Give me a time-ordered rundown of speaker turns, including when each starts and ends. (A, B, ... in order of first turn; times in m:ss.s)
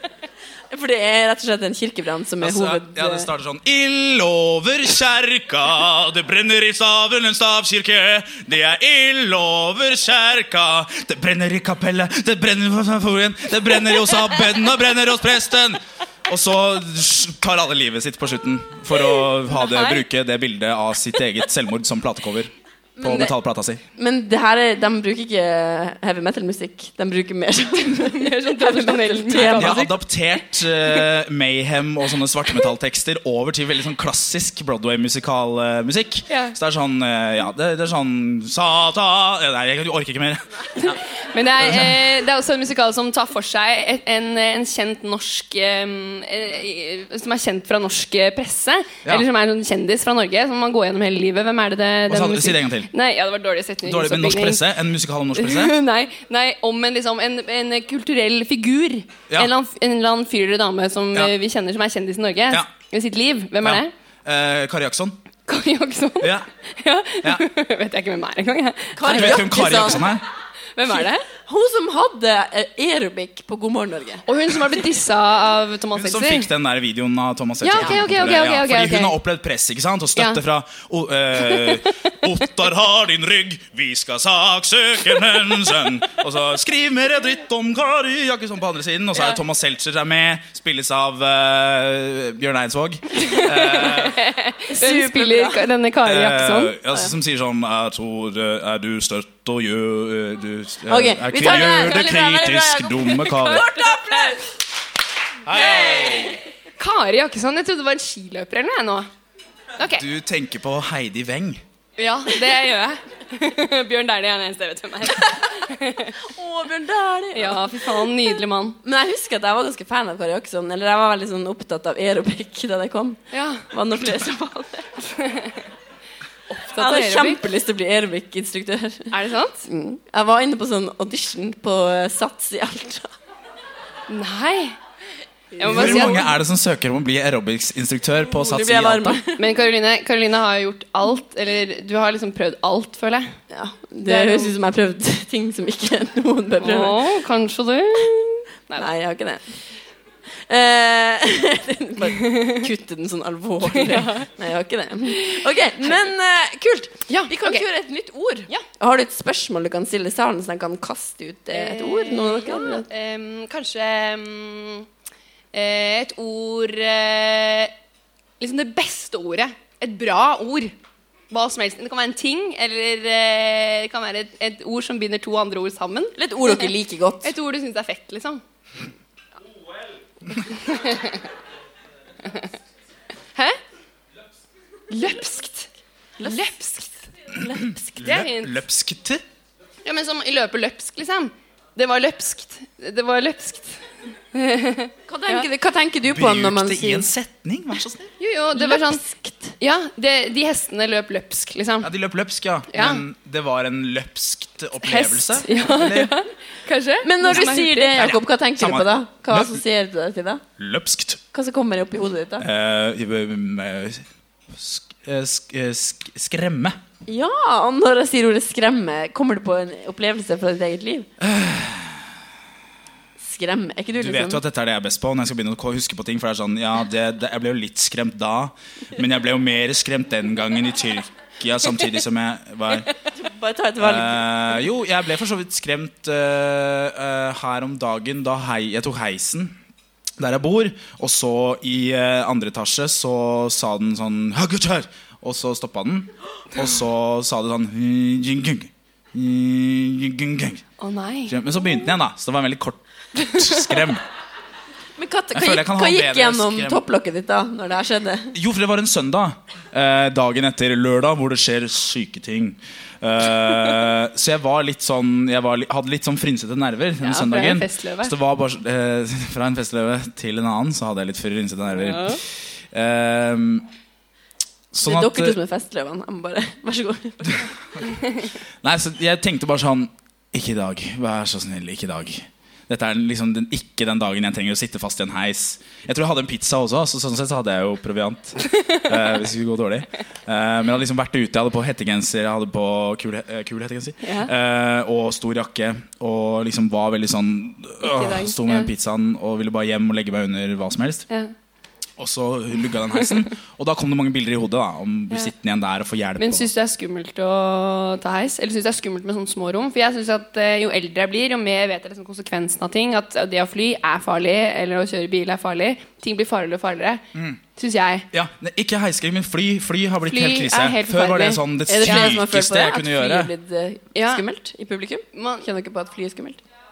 0:00.7-0:03.3 A
0:02.4-0:23.8 B
0:19.0-0:20.0 C
0:23.0-0:23.3 A
0:24.0-0:29.9 A
0:28.0-0:29.9 C
0:29.3-0:41.0 B
0:36.3-0:36.6 C
0:40.8-0:54.6 C
0:41.6-0:42.1 B
0:52.1-0:52.9 B
0:53.8-0:55.7 B
0:55.4-1:03.9 C
1:03.6-1:05.2 B
1:05.5-1:10.0 C
1:06.2-1:06.5 B
1:09.0-1:10.1 A
1:09.0-1:10.2 B
1:10.8-1:11.3 C
1:10.9-1:14.2 A
1:14.3-1:16.5 C
1:16.0-1:34.3 B
1:17.6-1:19.2 C
1:17.8-1:18.0 A
1:20.2-1:20.4 C
1:21.5-1:21.8 C
1:33.2-1:36.8 C
1:34.7-1:35.7 A
1:36.0-1:43.7 B
1:40.9-1:44.6 A
1:43.2-1:44.4 C
1:45.5-1:46.4 B
1:45.5-1:46.4 A
1:46.8-1:49.1 C
1:49.8-1:50.0 C
1:49.8-1:51.6 B
1:52.0-1:56.2 C
1:56.1-1:58.1 A
1:57.4-1:58.8 C
1:58.8-2:04.9 A
2:03.3-2:03.7 C
2:05.1-2:05.6 C
2:06.5-2:07.4 C
2:06.8-2:09.1 A
2:09.1-2:09.6 C
2:09.7-2:13.1 A
2:14.1-2:14.8 C
2:15.6-2:16.1 A
2:15.6-2:16.4 C
2:15.6-2:19.2 B
2:18.4-2:19.5 A
2:19.4-2:23.4 C
2:23.5-2:27.0 A
2:24.0-2:24.5 C
2:26.6-2:28.9 C
2:28.8-2:29.5 A
2:30.5-2:42.9 A
2:33.7-2:34.3 C
2:37.1-2:37.6 C
2:41.5-2:44.9 C
2:45.5-2:47.7 C
2:48.4-2:50.8 C
2:51.3-2:56.7 C
2:56.2-2:57.3 A
2:57.2-2:58.4 C
3:00.4-3:01.2 C
3:04.9-3:05.7 C
3:06.2-3:06.9 C
3:07.3-3:08.0 A
3:07.5-3:09.2 B
3:08.0-3:08.6 C
3:09.8-3:13.8 C
3:14.3-3:15.5 C
3:15.1-3:17.1 A
3:16.1-3:18.1 B
3:18.2-3:19.0 C
3:18.6-3:19.5 A
3:19.6-3:21.9 C
3:21.8-3:26.1 B
3:22.7-3:23.0 C
3:24.8-3:28.1 C
3:27.0-3:30.4 A
3:28.0-3:29.6 B
3:30.6-3:31.2 B
3:31.3-3:32.5 A
3:32.4-3:36.8 B
3:37.1-3:41.1 A
3:41.2-3:42.1 B
3:43.2-3:44.4 A
3:44.0-3:52.9 B
3:53.1-3:54.3 A
3:53.8-3:59.6 B
4:00.2-4:10.6 B
4:10.8-4:11.4 C
4:11.3-4:14.0 B
4:13.4-4:13.7 C
4:15.0-4:18.4 A
4:15.3-4:16.8 B
4:18.3-4:33.7 B
4:27.0-4:28.1 C
4:31.8-4:32.2 C
4:34.7-4:35.4 B
4:34.8-4:37.5 A
4:38.6-5:01.1 B
4:54.0-4:54.3 C
4:57.8-4:58.7 C
5:02.0-5:06.5 B
5:06.2-5:17.0 C
5:17.1-5:17.4 B
5:17.6-5:18.1 C
5:18.1-5:23.3 B
5:20.0-5:22.2 C
5:21.7-5:26.4 A
5:24.0-5:24.2 C
5:25.1-5:25.5 C